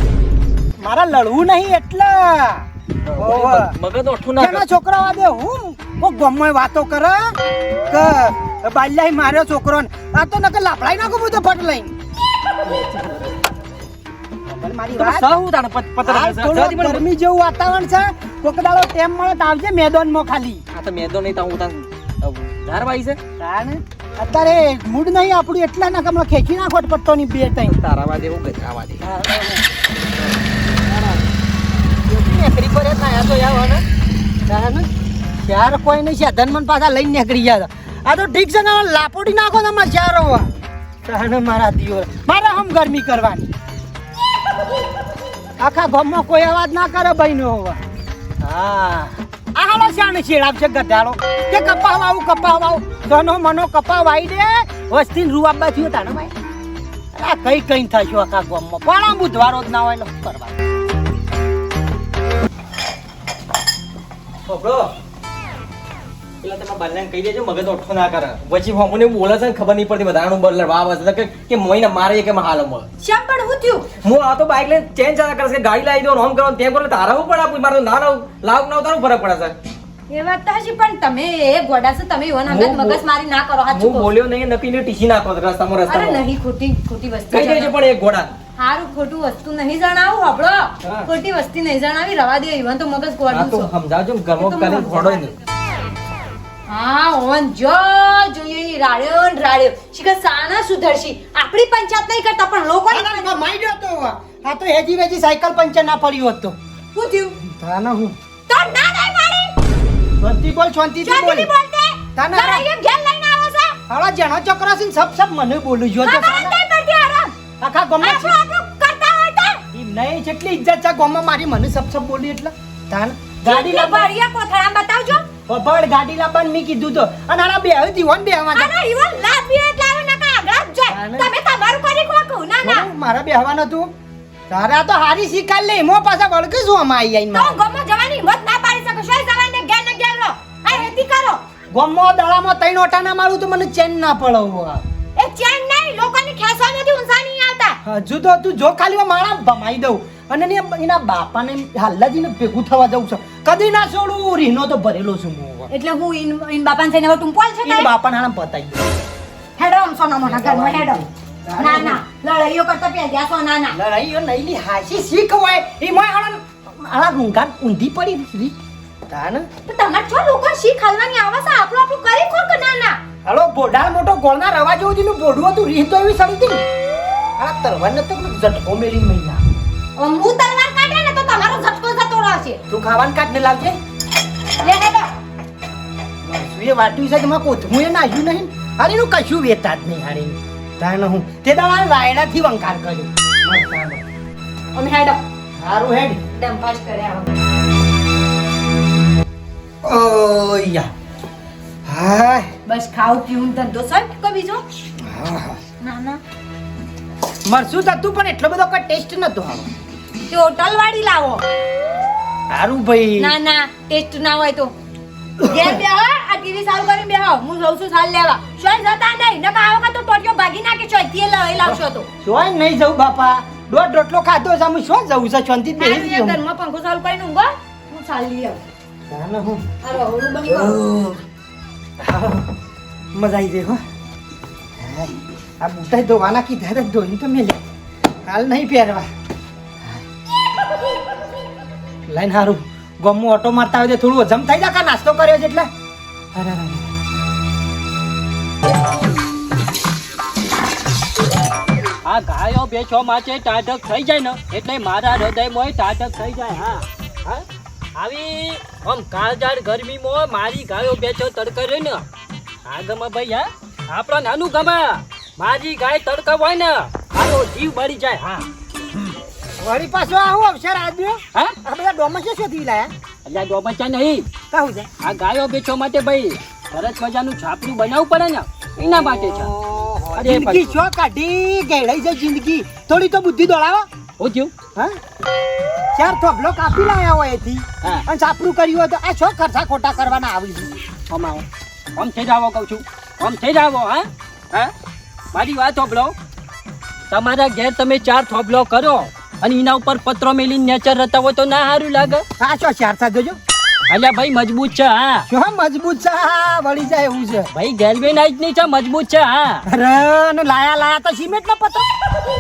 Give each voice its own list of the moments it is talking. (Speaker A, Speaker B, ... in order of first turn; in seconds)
Speaker A: 0.8-2.6, 3.2-3.8, 4.4-7.3, 7.9-11.9, 14.5-15.3, 16.0-20.6, 23.4-27.8, 29.0-29.7, 32.1-33.8, 34.5-34.9, 35.4-40.5, 41.0-43.5, 45.6-47.8, 48.4-56.3, 57.1-60.5, 102.9-106.5, 107.4-108.2, 110.2-111.5, 112.2-112.7, 113.9-116.6, 117.6-118.4, 119.7-124.2, 125.5-128.7, 130.9-131.3, 132.6-133.9, 134.5-137.6, 141.7-144.8, 147.8-155.7, 157.6-158.8, 160.2-162.0, 163.7-168.5, 169.1-169.5, 173.3-176.6, 177.4-179.4, 182.7-183.8, 186.2-194.0, 195.6-196.2, 199.8-200.9, 201.9-202.5, 205.1-205.6, 207.5-209.7, 212.5-213.3, 221.7-226.4, 229.1-229.6, 230.5-231.2, 232.0-232.5, 233.1-233.8, 234.8-237.6, 238.2-239.1, 242.1-245.7, 246.3-246.9, 269.6-272.9, 274.5-274.9, 279.0-283.9, 285.9-290.7, 302.4-303.4, 305.3-307.5, 309.7-311.9
Speaker B: 3.0-4.7, 12.7-13.4, 14.9-17.0, 20.7-23.2, 27.6-29.0, 64.5-64.9, 66.4-72.9, 74.0-79.6, 82.5-83.0, 83.7-86.2, 87.3-88.3, 93.3-95.3
Speaker C: 73.0-73.9, 80.1-84.1, 85.9-87.8, 88.6-93.7, 94.4-95.3, 96.7-103.3, 106.9-107.4, 108.5-109.6, 111.0-113.8, 116.0-117.3, 118.0-119.6, 123.5-125.3, 128.5-132.9, 137.3-141.4, 145.2-147.8, 155.7-157.9, 159.6-161.1, 161.6-163.8, 169.7-173.0, 180.0-182.6, 184.5-185.1, 194.7-195.2, 196.3-197.3, 202.7-204.7, 205.8-206.2, 210.3-211.4, 213.2-214.7, 215.4-222.1, 225.8-228.6, 229.8-230.8
Speaker D: 252.1-262.1, 262.6-268.5, 273.3-274.2, 275.0-279.5, 280.2-280.8, 284.2-284.5, 291.1-294.7, 295.3-296.2, 297.1-302.2, 303.9-305.3, 307.5-309.6